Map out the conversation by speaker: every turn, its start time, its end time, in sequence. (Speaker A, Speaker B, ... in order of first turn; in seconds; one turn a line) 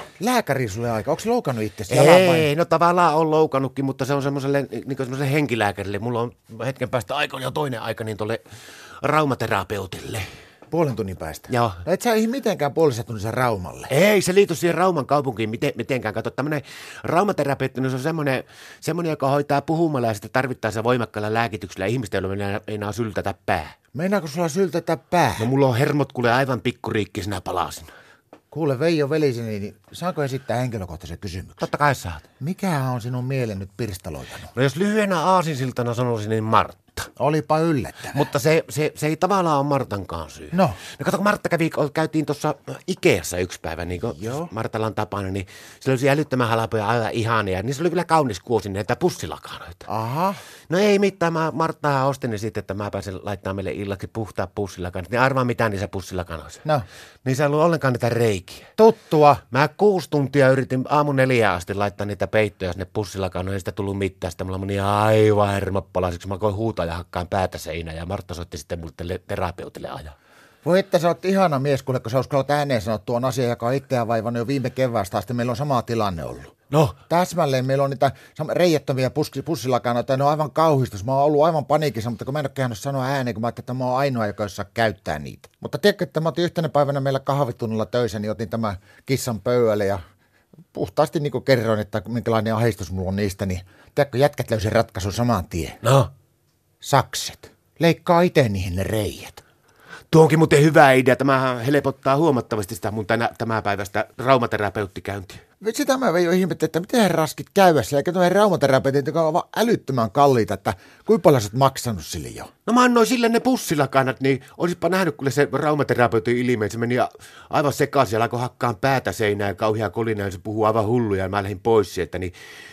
Speaker A: 0.2-2.5
Speaker B: 1.9-8.4
Speaker B: 9.0-10.3
Speaker A: 10.7-13.9
Speaker B: 11.5-11.8
Speaker B: 13.9-23.8
Speaker A: 23.9-25.5
Speaker B: 25.4-27.9
Speaker A: 28.5-31.7
Speaker B: 31.6-32.2
Speaker A: 32.4-34.5
Speaker B: 34.5-37.1
Speaker A: 37.2-38.3
Speaker B: 38.1-49.9
Speaker A: 40.5-40.8
Speaker A: 44.1-44.5
Speaker A: 49.9-50.4
Speaker B: 50.7-56.6
Speaker B: 57.2-58.7
Speaker A: 58.8-59.4
Speaker B: 59.5-70.1
Speaker A: 70.6-76.5
Speaker B: 76.7-77.0
Speaker A: 77.1-90.0
Speaker A: 90.7-95.8
Speaker B: 95.8-96.1
Speaker A: 96.8-99.4
Speaker B: 100.1-105.4
Speaker A: 105.6-112.5
Speaker B: 112.7-122.3